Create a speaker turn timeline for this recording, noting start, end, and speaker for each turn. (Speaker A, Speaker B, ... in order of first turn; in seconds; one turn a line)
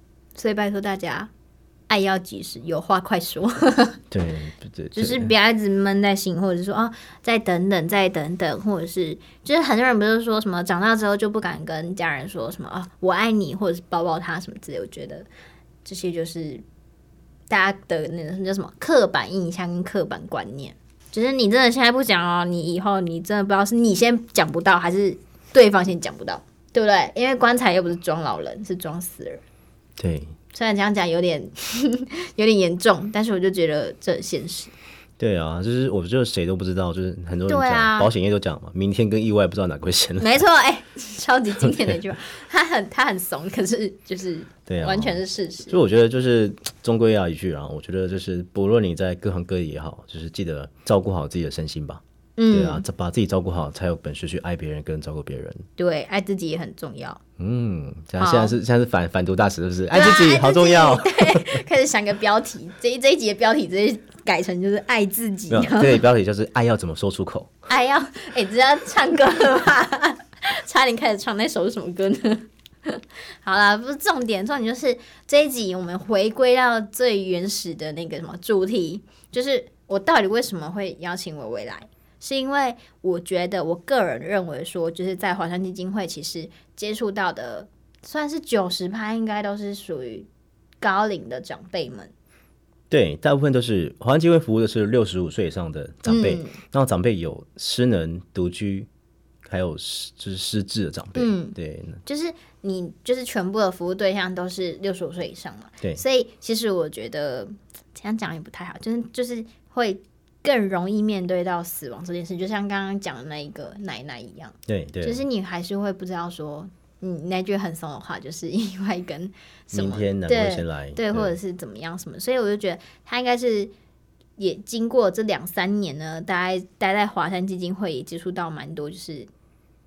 Speaker A: 0.4-1.3
Speaker A: 1.9-4.0
Speaker B: 4.1-5.3
Speaker A: 4.9-15.3
Speaker A: 15.8-16.6
Speaker A: 17.5-29.4
Speaker B: 30.0-30.3
Speaker A: 30.5-34.7
Speaker B: 35.2-40.4
Speaker A: 37.5-38.1
Speaker A: 40.2-45.8
Speaker B: 41.6-41.9
Speaker B: 44.7-55.6
Speaker A: 52.4-52.8
Speaker A: 55.8-57.2
Speaker B: 57.4-61.6
Speaker A: 58.2-58.5
Speaker A: 59.9-66.0
Speaker B: 65.5-67.5
Speaker A: 67.7-90.3
Speaker A: 90.8-92.1
Speaker B: 92.9-98.9
Speaker A: 96.0-96.6
Speaker B: 99.4-102.0
Speaker A: 101.2-123.7
Speaker B: 114.7-115.2
Speaker B: 119.7-121.3
Speaker A: 124.4-129.3